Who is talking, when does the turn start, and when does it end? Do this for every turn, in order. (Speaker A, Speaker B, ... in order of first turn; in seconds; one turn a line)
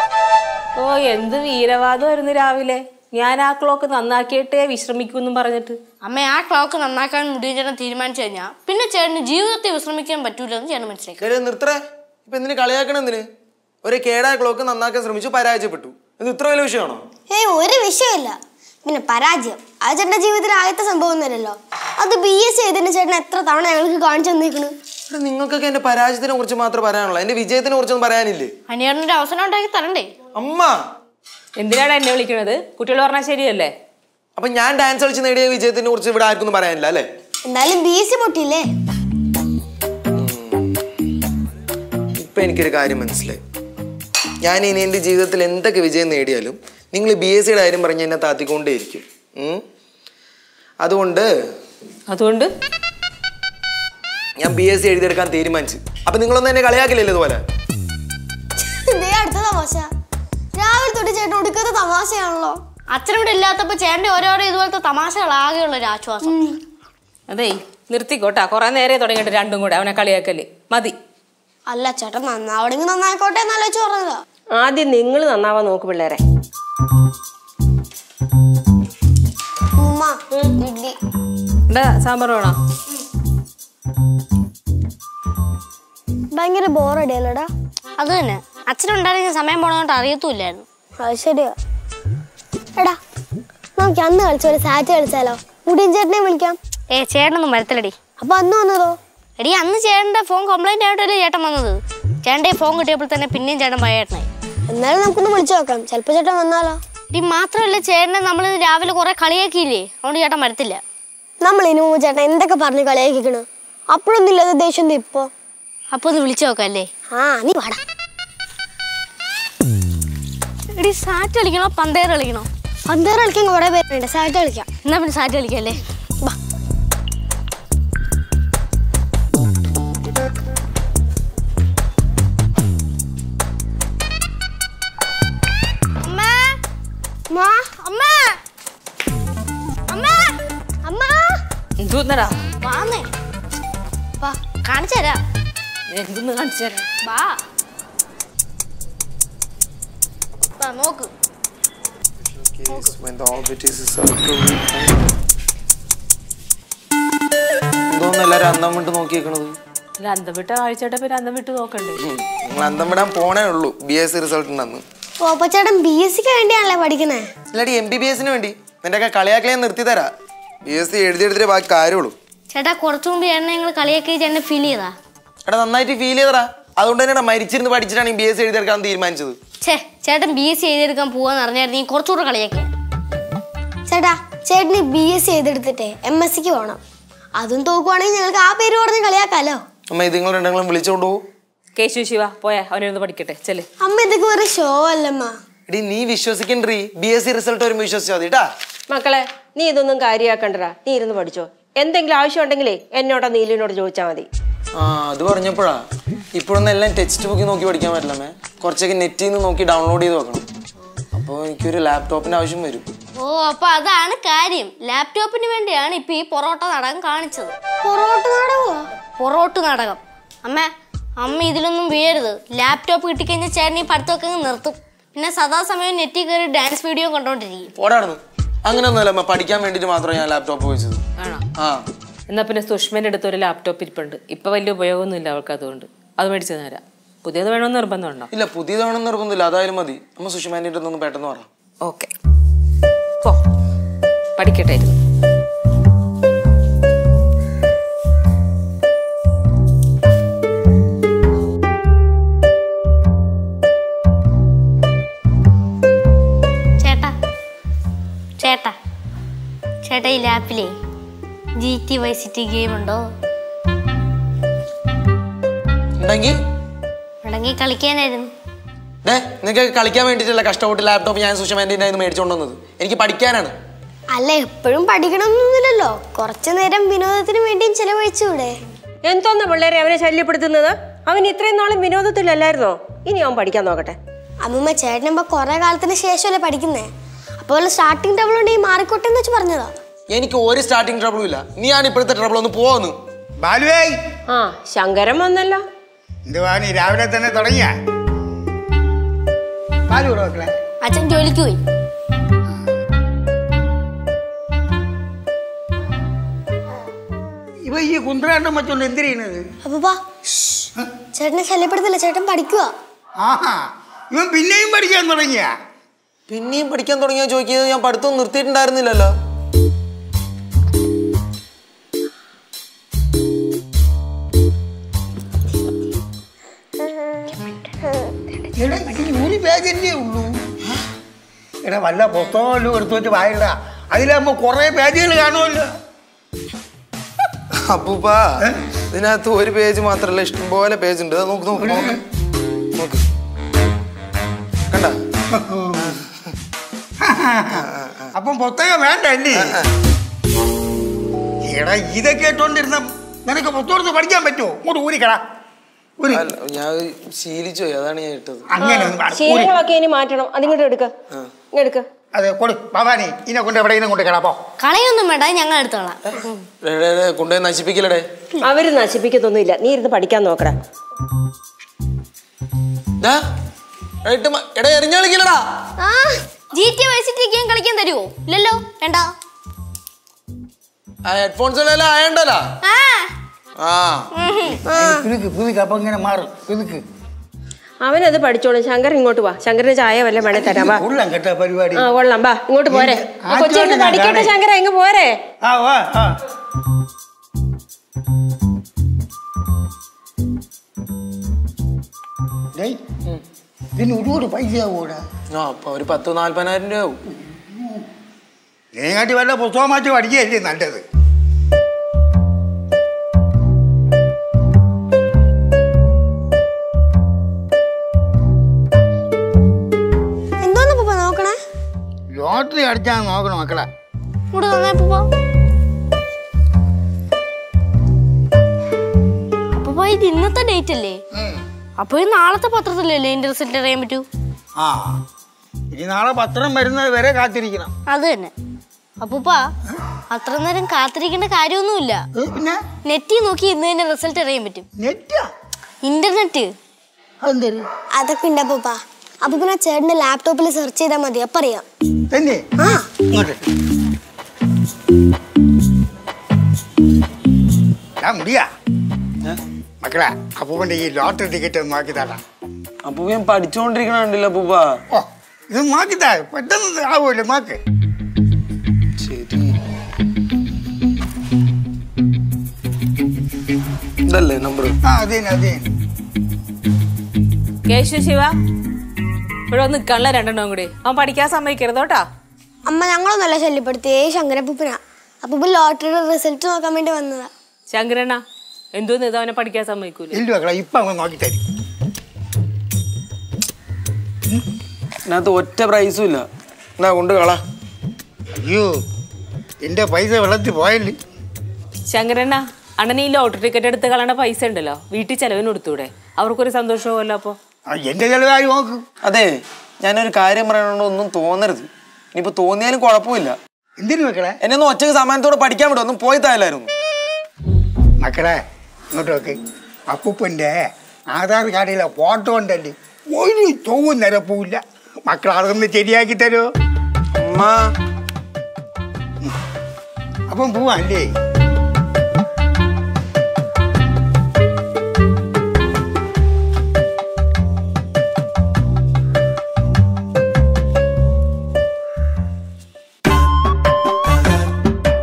Speaker A: 0.8-5.8
Speaker B: 6.0-11.2
Speaker C: 11.2-13.2
Speaker C: 13.8-17.0
Speaker D: 17.3-24.7
Speaker C: 25.1-28.5
Speaker B: 28.7-30.1
Speaker C: 30.4-30.7
Speaker A: 31.6-33.7
Speaker C: 34.4-37.1
Speaker D: 37.5-38.7
Speaker C: 40.1-40.7
Speaker C: 42.2-43.4
Speaker C: 44.4-49.6
Speaker C: 50.8-51.3
Speaker A: 52.1-52.5
Speaker C: 54.4-57.4
Speaker D: 58.6-59.9
Speaker D: 60.5-62.6
Speaker B: 62.9-66.4
Speaker D: 66.2-66.5
Speaker A: 67.3-71.0
Speaker D: 71.7-74.2
Speaker E: 74.5-76.2
Speaker D: 79.8-81.0
Speaker A: 81.7-82.6
Speaker D: 86.3-87.5
Speaker B: 88.0-90.6
Speaker D: 91.0-91.5
Speaker D: 93.8-96.6
Speaker B: 96.9-98.0
Speaker D: 98.2-99.0
Speaker B: 99.4-104.3
Speaker D: 104.7-106.8
Speaker B: 107.1-110.8
Speaker D: 111.4-115.3
Speaker B: 115.9-116.9
Speaker D: 117.1-117.8
Speaker B: 120.8-122.5
Speaker D: 122.9-124.7
Speaker B: 124.8-125.8
Speaker B: 136.0-136.6
Speaker D: 137.3-137.6
Speaker B: 137.7-138.4
Speaker B: 139.9-140.4
Speaker D: 140.8-141.4
Speaker A: 141.8-142.4
Speaker B: 142.6-143.1
Speaker B: 144.6-145.2
Speaker A: 145.9-146.9
Speaker B: 147.0-147.4
Speaker B: 150.6-151.1
Speaker C: 152.3-155.0
Speaker B: 152.7-152.9
Speaker C: 157.9-159.6
Speaker A: 160.0-162.0
Speaker C: 162.0-164.8
Speaker D: 165.2-167.3
Speaker C: 167.5-170.1
Speaker C: 170.6-172.1
Speaker B: 172.5-174.9
Speaker C: 175.5-179.4
Speaker B: 179.6-182.7
Speaker D: 183.9-186.8
Speaker D: 187.3-189.6
Speaker C: 189.9-191.2
Speaker A: 191.8-193.7
Speaker D: 193.8-195.3
Speaker C: 195.7-198.5
Speaker E: 198.9-204.3
Speaker C: 204.8-205.8
Speaker C: 206.3-210.4
Speaker C: 211.1-212.8
Speaker B: 213.2-217.5
Speaker D: 217.8-218.9
Speaker B: 219.2-227.7
Speaker C: 227.8-231.0
Speaker C: 231.6-231.8
Speaker A: 232.3-238.3
Speaker C: 238.3-241.5
Speaker A: 241.8-242.1
Speaker A: 244.4-245.0
Speaker B: 256.8-257.1
Speaker B: 258.4-258.7
Speaker B: 259.8-260.7
Speaker B: 261.6-263.1
Speaker C: 266.0-266.3
Speaker B: 267.2-268.3
Speaker C: 269.0-273.6
Speaker D: 274.1-278.5
Speaker E: 279.0-284.0
Speaker D: 284.4-289.7
Speaker C: 290.1-293.0
Speaker F: 293.4-294.0
Speaker E: 294.3-295.6
Speaker F: 296.3-297.7
Speaker F: 299.9-300.5
Speaker B: 300.8-301.6
Speaker F: 307.6-309.5
Speaker D: 309.6-310.0
Speaker D: 311.1-312.7
Speaker F: 313.2-315.5
Speaker C: 316.3-319.1
Speaker F: 328.6-330.4
Speaker F: 331.6-335.7
Speaker C: 337.7-338.3
Speaker C: 338.9-342.0
Speaker F: 341.6-342.0
Speaker C: 342.8-343.0
Speaker C: 344.7-344.9
Speaker F: 345.3-346.0
Speaker F: 347.0-349.6
Speaker C: 347.6-348.1
Speaker C: 349.4-349.7
Speaker F: 351.4-355.2
Speaker F: 356.0-356.3
Speaker C: 356.1-358.4
Speaker F: 358.5-359.5
Speaker E: 358.6-360.9
Speaker E: 361.5-361.8
Speaker F: 362.1-364.4
Speaker B: 364.6-366.4
Speaker C: 366.6-368.0
Speaker E: 368.4-370.6
Speaker C: 374.0-375.4
Speaker D: 375.8-376.2
Speaker B: 376.5-379.1
Speaker C: 381.0-382.4
Speaker B: 382.6-383.1
Speaker C: 383.6-384.1
Speaker B: 384.1-384.6
Speaker F: 384.6-386.8
Speaker D: 384.7-385.1
Speaker E: 387.8-390.8
Speaker F: 390.2-391.9
Speaker E: 391.8-395.1
Speaker F: 392.7-394.3
Speaker F: 395.4-396.1
Speaker F: 403.8-405.0
Speaker C: 405.3-407.0
Speaker F: 408.7-410.8
Speaker D: 420.4-421.4
Speaker F: 422.1-423.7
Speaker B: 424.3-425.1
Speaker B: 429.6-431.0
Speaker F: 431.1-431.4
Speaker B: 431.8-434.0
Speaker F: 434.6-435.0
Speaker F: 435.7-437.7
Speaker B: 437.9-438.3
Speaker B: 439.0-439.4
Speaker B: 440.1-442.0
Speaker F: 442.1-442.6
Speaker B: 442.9-444.6
Speaker F: 444.8-445.3
Speaker B: 445.8-446.5
Speaker F: 447.2-447.6
Speaker D: 447.9-451.6
Speaker F: 452.1-452.5
Speaker D: 452.6-452.9
Speaker F: 453.1-453.4
Speaker F: 458.0-458.5
Speaker F: 459.8-462.2
Speaker C: 462.8-464.8
Speaker F: 464.9-467.6
Speaker C: 469.0-469.6
Speaker C: 474.1-474.8
Speaker F: 474.8-475.7
Speaker A: 477.7-478.3
Speaker A: 479.5-482.0
Speaker D: 482.6-487.3
Speaker A: 487.7-488.2
Speaker A: 488.7-490.2
Speaker F: 490.1-491.4
Speaker C: 495.1-496.2
Speaker C: 496.8-497.4
Speaker F: 498.4-498.7
Speaker F: 499.6-500.9
Speaker A: 501.9-507.4
Speaker F: 507.7-508.8
Speaker C: 509.0-513.4
Speaker F: 513.8-514.4
Speaker C: 514.4-516.7
Speaker F: 518.0-518.4
Speaker F: 518.9-519.4
Speaker F: 519.9-526.5
Speaker C: 527.1-527.7
Speaker F: 530.3-531.1